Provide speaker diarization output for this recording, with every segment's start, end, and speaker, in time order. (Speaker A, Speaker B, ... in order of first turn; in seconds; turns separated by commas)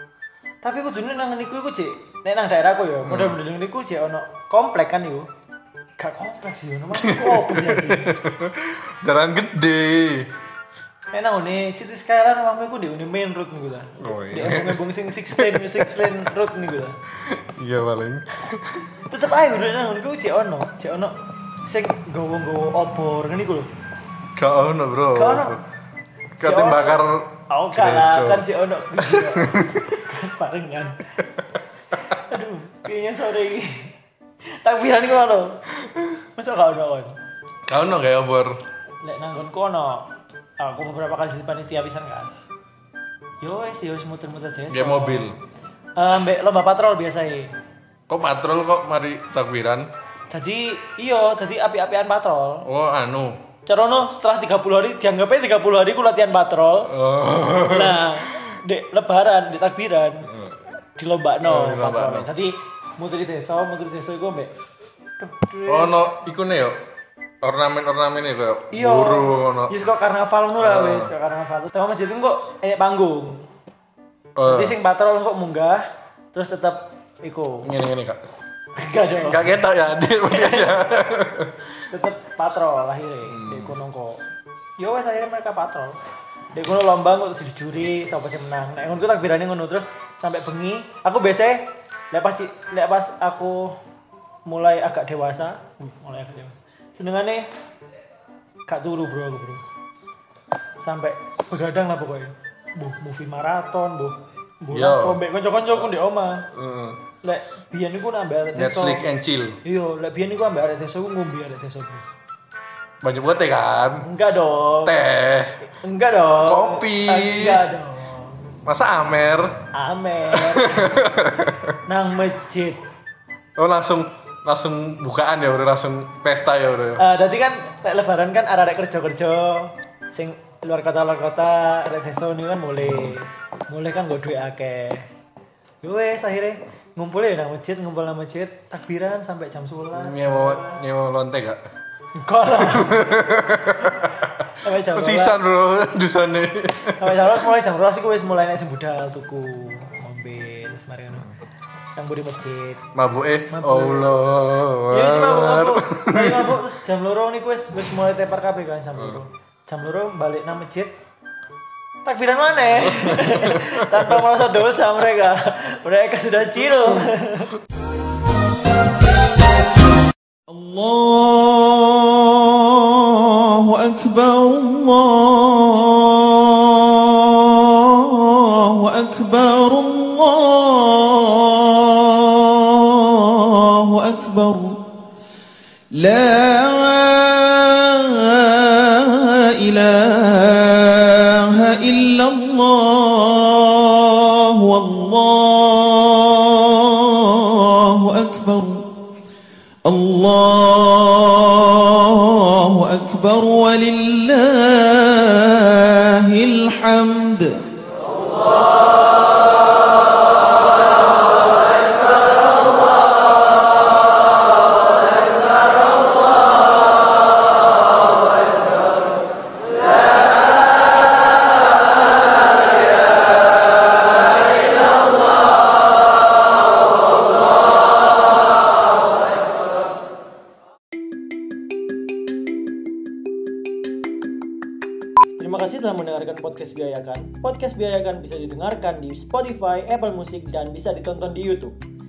Speaker A: 0.6-5.3, Speaker B: 3.0-3.4, Speaker A: 6.0-8.2, Speaker B: 7.0-10.3, Speaker A: 11.1-17.0, Speaker B: 14.0-16.1, Speaker B: 17.2-18.8, Speaker A: 19.1-21.2, Speaker A: 21.7-23.7, Speaker B: 24.4-25.6, Speaker A: 25.1-25.6, Speaker B: 26.4-29.8, Speaker A: 26.4-27.0, Speaker A: 27.5-31.1, Speaker A: 32.0-33.9, Speaker A: 34.6-35.6, Speaker A: 36.4-37.1, Speaker B: 37.7-38.6, Speaker A: 39.0-42.3, Speaker A: 43.4-45.3, Speaker B: 44.7-45.4, Speaker A: 46.0-47.5, Speaker B: 48.1-49.9, Speaker A: 50.3-52.7, Speaker B: 52.6-53.4, Speaker A: 53.7-56.9, Speaker B: 56.9-58.1, Speaker A: 57.7-60.3, Speaker B: 60.3-60.6, Speaker A: 61.0-64.5, Speaker B: 61.4-62.3, Speaker A: 65.2-66.1, Speaker B: 65.7-66.8, Speaker B: 67.4-69.7, Speaker A: 68.7-73.5, Speaker B: 70.6-71.1, Speaker B: 74.4-74.8, Speaker A: 74.4-77.7, Speaker B: 77.6-78.2, Speaker A: 78.8-79.6, Speaker B: 79.2-81.7, Speaker A: 80.3-80.8, Speaker A: 81.9-84.2, Speaker B: 83.3-83.7, Speaker A: 84.8-86.0, Speaker A: 86.5-93.7, Speaker A: 94.5-97.4, Speaker A: 98.7-99.6, Speaker A: 100.8-106.5, Speaker B: 104.7-105.2, Speaker B: 106.5-107.0, Speaker A: 107.2-109.0, Speaker B: 108.5-109.6, Speaker A: 109.6-112.0, Speaker B: 113.0-114.0, Speaker A: 114.0-115.0, Speaker B: 114.8-115.6, Speaker A: 115.6-118.4, Speaker B: 116.4-117.7, Speaker B: 118.7-119.6, Speaker A: 119.7-121.1, Speaker B: 120.3-121.8, Speaker A: 121.8-122.8, Speaker B: 123.6-127.0, Speaker A: 127.0-135.1, Speaker B: 132.8-133.2, Speaker A: 135.8-140.8, Speaker B: 139.9-141.6, Speaker A: 142.2-143.3, Speaker B: 142.5-147.4, Speaker A: 143.9-145.4, Speaker A: 146.9-151.3, Speaker A: 152.0-152.8, Speaker B: 152.9-156.6, Speaker A: 153.5-154.2, Speaker A: 154.9-160.9, Speaker A: 162.0-167.6, Speaker B: 162.8-164.2, Speaker C: 170.5-184.8, Speaker C: 185.9-198.8, Speaker C: 199.8-207.6, Speaker A: 235.4-241.8